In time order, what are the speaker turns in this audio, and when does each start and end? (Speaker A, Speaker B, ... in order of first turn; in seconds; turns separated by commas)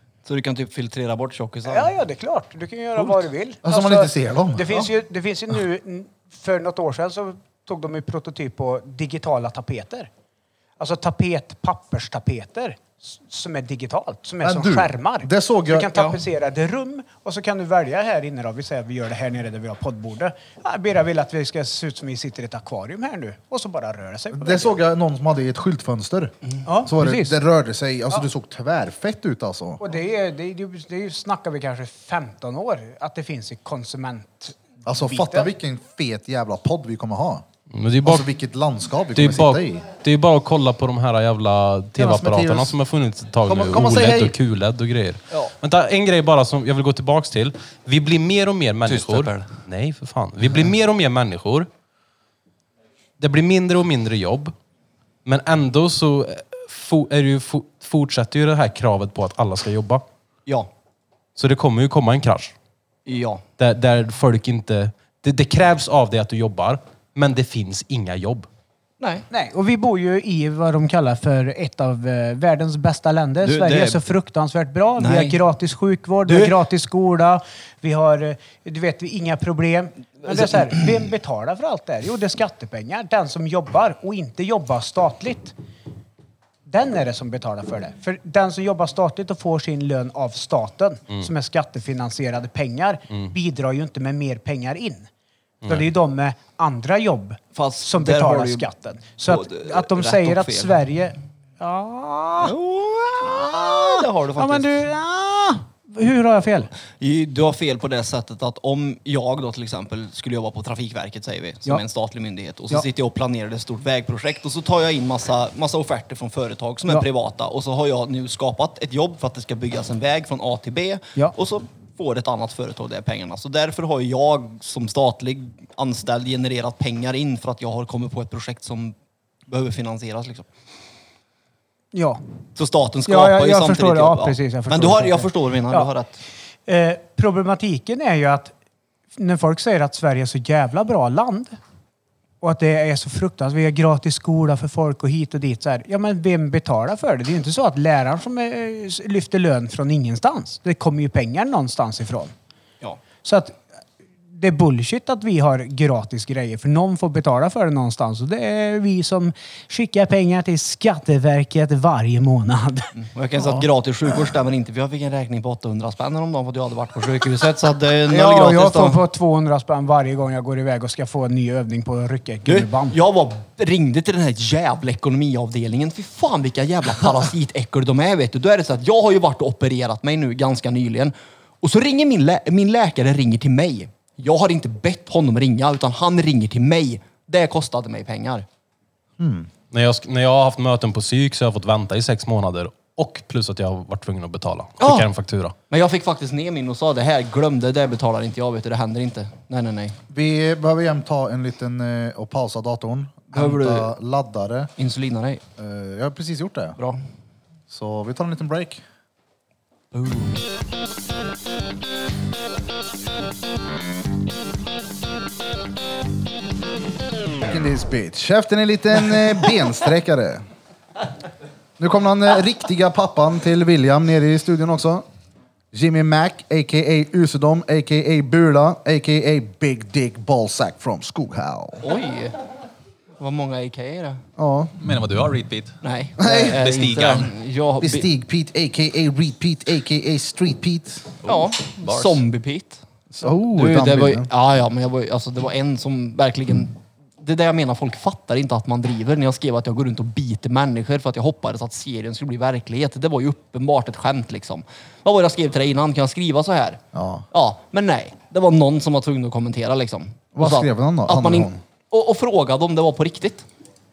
Speaker A: 0.2-1.9, Speaker B: 1.7-10.1, Speaker C: 3.6-4.7, Speaker B: 10.8-24.8, Speaker C: 14.4-16.0, Speaker A: 15.9-16.2, Speaker C: 24.3-29.8, Speaker B: 26.7-27.4, Speaker B: 29.8-35.5, Speaker C: 34.9-37.5, Speaker D: 37.7-38.3, Speaker C: 38.0-39.9, Speaker D: 39.1-51.7, Speaker C: 42.0-42.8, Speaker C: 43.5-44.4, Speaker A: 48.9-49.5, Speaker D: 53.2-54.5, Speaker D: 55.2-60.0, Speaker D: 61.4-62.5, Speaker A: 63.1-63.4, Speaker D: 63.6-68.5, Speaker A: 69.0-69.3, Speaker B: 69.3-85.5, Speaker A: 73.4-74.0, Speaker A: 75.0-75.4, Speaker A: 76.2-76.6, Speaker A: 80.3-80.9, Speaker B: 86.7-95.1, Speaker D: 95.6-95.9, Speaker B: 95.7-102.5, Speaker A: 97.5-98.7, Speaker A: 99.3-100.8, Speaker A: 102.4-104.8, Speaker B: 103.3-106.7, Speaker A: 107.0-128.9, Speaker A: 129.5-130.5, Speaker B: 131.9-132.2, Speaker A: 132.6-136.2, Speaker B: 133.1-135.9, Speaker B: 136.7-138.5, Speaker B: 139.2-141.6, Speaker B: 142.4-152.3, Speaker B: 153.2-153.6, Speaker B: 154.3-162.9, Speaker A: 163.0-169.0, Speaker B: 168.1-173.0, Speaker A: 172.5-188.5, Speaker C: 189.2-189.5, Speaker D: 189.7-195.6, Speaker A: 194.8-195.1, Speaker A: 195.7-200.0, Speaker C: 200.1-204.7, Speaker A: 203.3-203.9, Speaker A: 204.8-205.4, Speaker C: 205.6-206.8, Speaker C: 207.7-208.8, Speaker A: 209.9-210.4, Speaker C: 217.4-220.4, Speaker C: 221.8-225.1, Speaker C: 225.7-231.9, Speaker A: 231.8-232.4, Speaker A: 233.2-234.2, Speaker C: 234.4-234.7, Speaker E: 234.8-235.8, Speaker A: 235.8-238.1, Speaker C: 236.2-236.6, Speaker E: 236.5-237.3, Speaker C: 237.8-241.1, Speaker E: 241.2-242.2, Speaker A: 241.3-242.8, Speaker C: 243.1-244.3, Speaker A: 243.5-256.8, Speaker C: 256.9-257.3, Speaker A: 257.3-263.5, Speaker C: 260.4-261.6